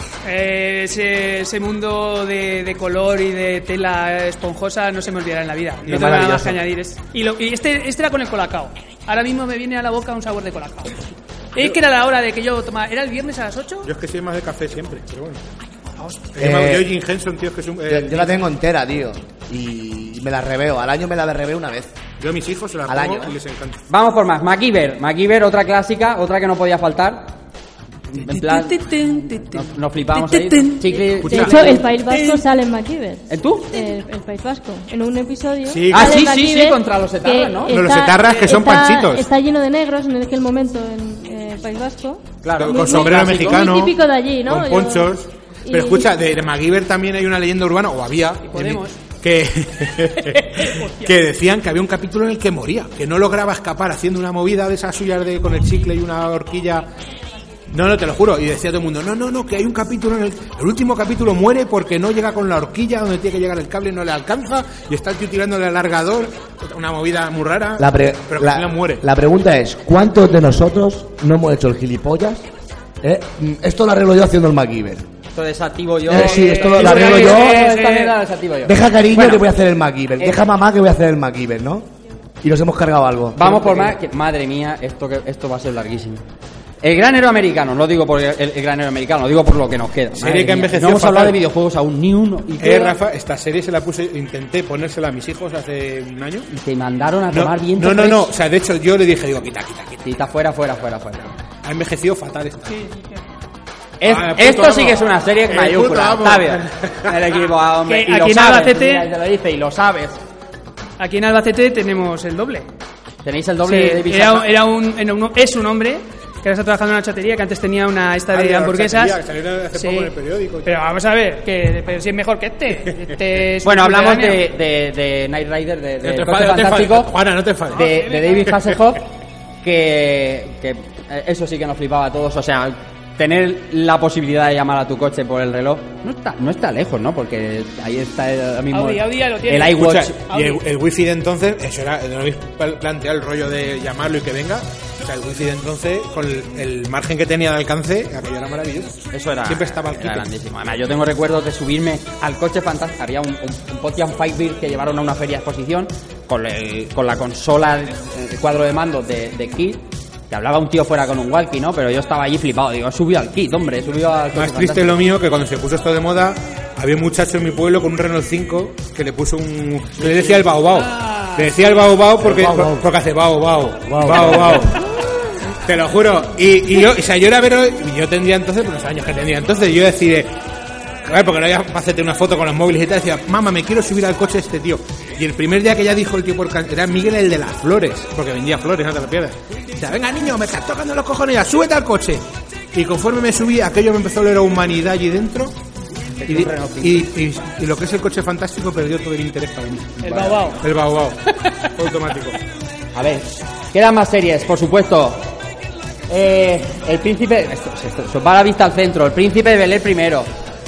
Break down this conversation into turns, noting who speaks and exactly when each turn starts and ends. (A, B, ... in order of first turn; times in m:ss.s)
0:00.2-0:13.9 A
0:05.8-0:06.6 B
0:05.9-0:06.2 C
0:13.8-0:15.4 C
0:16.3-0:18.4 C
0:16.4-0:17.0 B
0:17.9-0:21.9 B
0:22.2-0:23.8 C
0:22.8-0:23.3 B
0:23.9-0:27.4 D
0:28.1-0:31.8 D
0:28.2-0:31.0 A
0:30.8-0:45.1 E
0:31.2-0:31.6 C
0:32.1-0:32.4 A
0:33.3-0:33.7 D
0:35.6-0:36.2 C
0:35.9-0:37.8 D
0:37.7-0:39.3 C
0:42.4-0:56.9 C
0:42.4-0:43.6 D
0:45.6-0:46.1 E
0:48.4-0:49.0 A
0:50.6-0:51.1 A
0:57.7-1:09.0 C
1:07.8-1:12.4 B
1:13.0-1:15.1 B
1:15.3-1:19.5 D
1:16.0-1:17.6 B
1:16.1-1:18.2 A
1:18.6-1:21.9 B
1:20.2-1:20.5 D
1:22.4-1:23.9 B
1:23.4-1:26.2 D
1:26.8-1:33.0 D
1:30.1-1:31.4 C
1:32.6-1:36.5 C
1:36.5-1:38.3 D
1:37.3-1:40.1 C
1:40.0-1:41.3 D
1:41.6-1:42.8 C
1:42.7-1:43.2 A
1:44.0-1:50.2 D
1:44.0-1:47.4 C
1:47.8-1:49.1 A
1:51.0-1:52.7 A
1:53.2-1:54.6 D
1:53.6-1:59.2 A
1:58.3-2:00.7 C
1:59.7-2:00.1 A
2:00.6-2:04.4 A
2:03.6-2:07.1 D
2:06.0-2:07.9 C
2:07.7-2:09.0 D
2:07.7-2:08.6 A
2:09.6-2:20.2 D
2:18.7-2:20.6 A
2:19.7-2:30.2 C
2:29.1-2:45.0 D
2:44.3-2:54.8 C
2:50.6-2:51.8 A
2:52.2-2:52.9 B
2:53.8-2:54.7 B
2:55.5-3:00.3 C
3:01.0-3:15.6 C
3:16.2-3:17.1 D
3:16.3-3:22.4 C
3:20.0-3:20.6 A
3:22.9-3:25.3 D
3:26.1-3:30.3 D